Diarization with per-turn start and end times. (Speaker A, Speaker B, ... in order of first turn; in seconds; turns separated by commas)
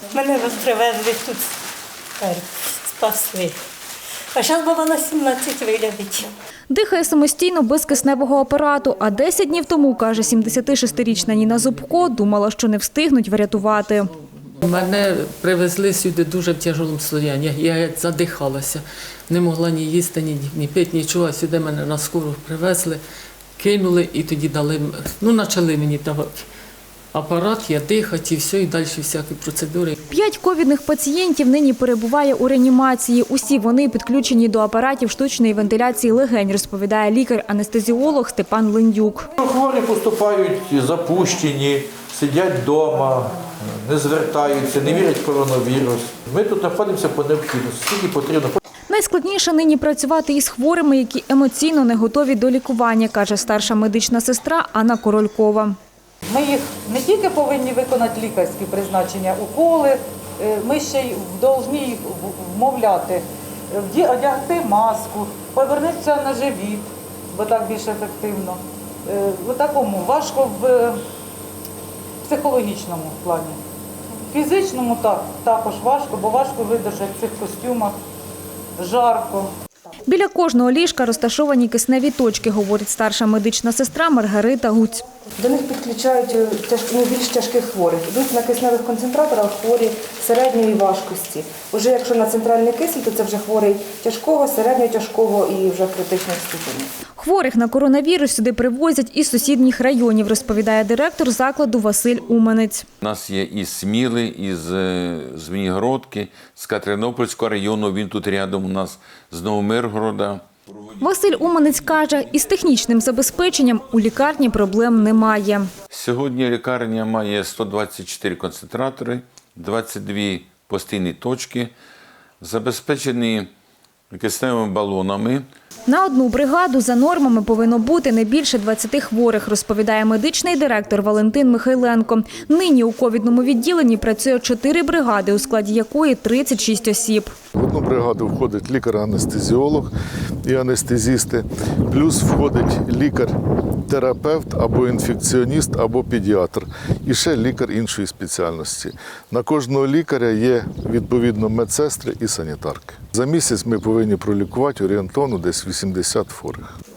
Speaker A: 0.1-1.5, Speaker A: 2.2-3.5, Speaker A: 4.3-6.3, Speaker B: 6.7-14.1, Speaker C: 14.6-23.0, Speaker C: 23.6-26.5, Speaker C: 27.1-29.9, Speaker B: 30.1-39.3, Speaker D: 39.4-48.6, Speaker B: 48.9-55.8, Speaker E: 56.3-71.0, Speaker E: 72.2-73.6, Speaker E: 74.3-78.0, Speaker E: 78.8-79.5, Speaker B: 80.1-85.0, Speaker F: 85.4-96.9, Speaker B: 97.2-102.8, Speaker G: 103.0-110.5, Speaker B: 111.0-115.7, Speaker G: 115.9-121.7, Speaker G: 122.4-123.5, Speaker G: 124.1-125.5, Speaker B: 125.9-137.3, Speaker H: 137.5-139.9, Speaker H: 140.4-143.3, Speaker H: 143.8-156.7